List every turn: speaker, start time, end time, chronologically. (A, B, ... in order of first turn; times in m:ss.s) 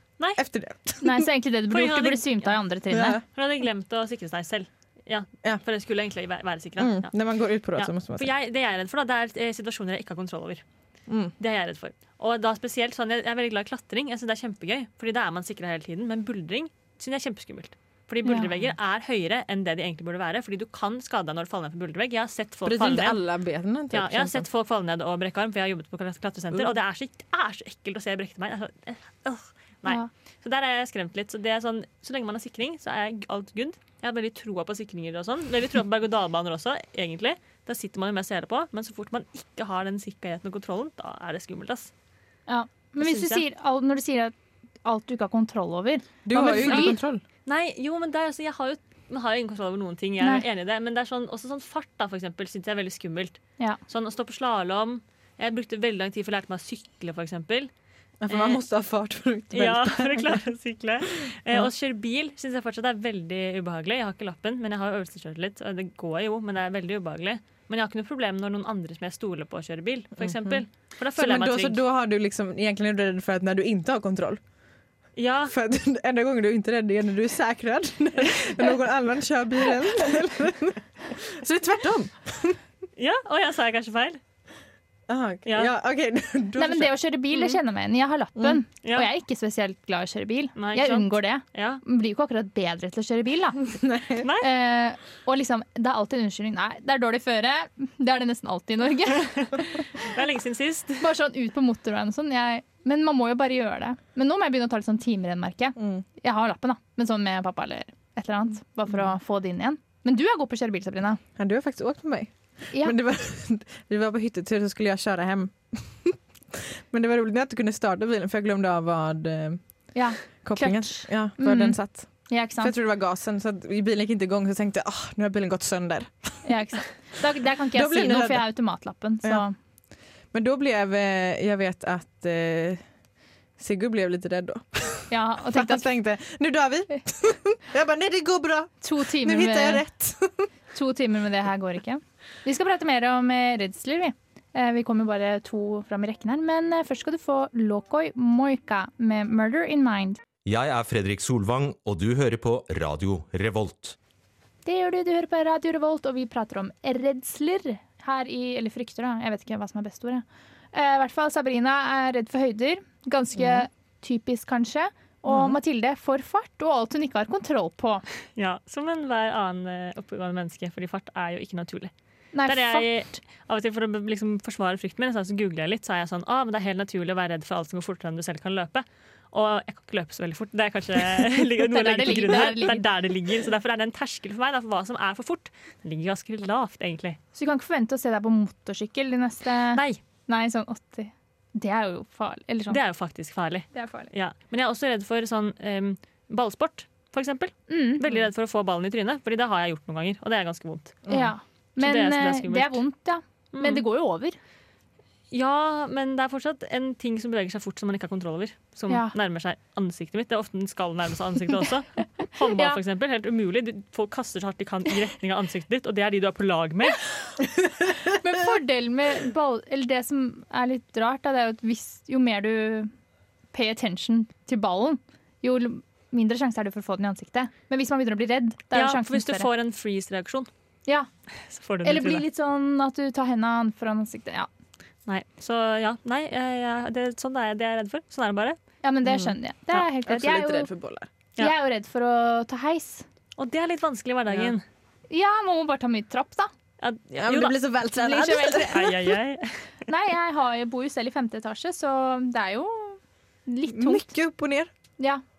0:00.3-0:01.3 A
0:01.0-0:03.2 B
0:01.7-0:02.6 C
0:02.9-0:03.2 A
0:03.3-0:07.1 C
0:06.8-0:08.3 A
0:07.7-0:10.6 C
0:11.1-0:11.3 A
0:11.4-0:23.2 C
0:18.2-0:18.5 B
0:22.6-0:24.5 A
0:23.9-0:41.9 C
0:42.5-0:47.0 B
0:43.0-0:43.4 C
0:46.2-0:47.2 A
0:46.6-0:46.9 C
0:47.4-0:57.7 C
0:58.2-1:00.4 A
0:58.3-0:58.6 C
0:59.5-1:11.8 C
1:10.2-1:10.6 A
1:11.2-1:14.4 A
1:15.2-1:15.5 C
1:15.5-1:22.6 A
1:23.0-1:24.2 C
1:25.1-1:26.9 A
1:25.4-1:25.7 C
1:26.6-1:33.8 B
1:28.8-1:29.1 C
1:30.6-1:31.8 C
1:33.8-1:34.3 A
1:34.2-1:34.5 C
1:34.4-1:39.9 B
1:39.4-1:41.1 C
1:41.0-1:51.2 B
1:45.8-1:46.0 A
1:51.4-1:59.6 A
1:52.7-1:53.0 B
1:59.9-2:02.7 B
2:00.4-2:06.5 A
2:06.4-2:09.5 B
2:07.7-2:08.5 A
2:10.3-2:12.8 A
2:13.6-2:20.5 A
2:15.1-2:15.9 B
2:18.8-2:19.8 B
2:20.7-2:30.2 B
2:30.4-2:34.0 D
2:34.6-2:48.0 B
2:45.3-2:45.6 A
2:48.4-2:51.9 C
2:52.3-2:52.9 B
2:52.4-3:07.2 C
3:01.6-3:02.8 B
3:07.3-3:12.8 B
3:09.7-3:10.0 C
3:12.7-3:21.0 C
3:13.7-3:14.1 B
3:17.7-3:18.1 B
3:21.0-3:21.3 A
3:21.1-3:24.4 B
3:21.8-3:22.8 C
3:23.5-3:23.8 C
3:25.3-3:37.0 C
3:28.9-3:29.1 B
3:32.5-3:32.8 B
3:38.0-3:42.9 B
3:43.5-3:49.5 B
3:48.7-3:50.5 C
3:51.5-3:52.2 C
3:51.8-3:54.5 B
3:55.1-3:58.6 C
3:58.8-4:00.7 B
3:59.1-4:01.1 A
4:01.4-4:03.0 B
4:03.4-4:04.6 C
4:04.3-4:04.5 A
4:05.1-4:06.5 B
4:06.8-4:07.6 C
4:07.2-4:08.7 A
4:08.0-4:09.0 B
4:08.7-4:09.6 C
4:09.9-4:14.1 B
4:13.7-4:14.7 A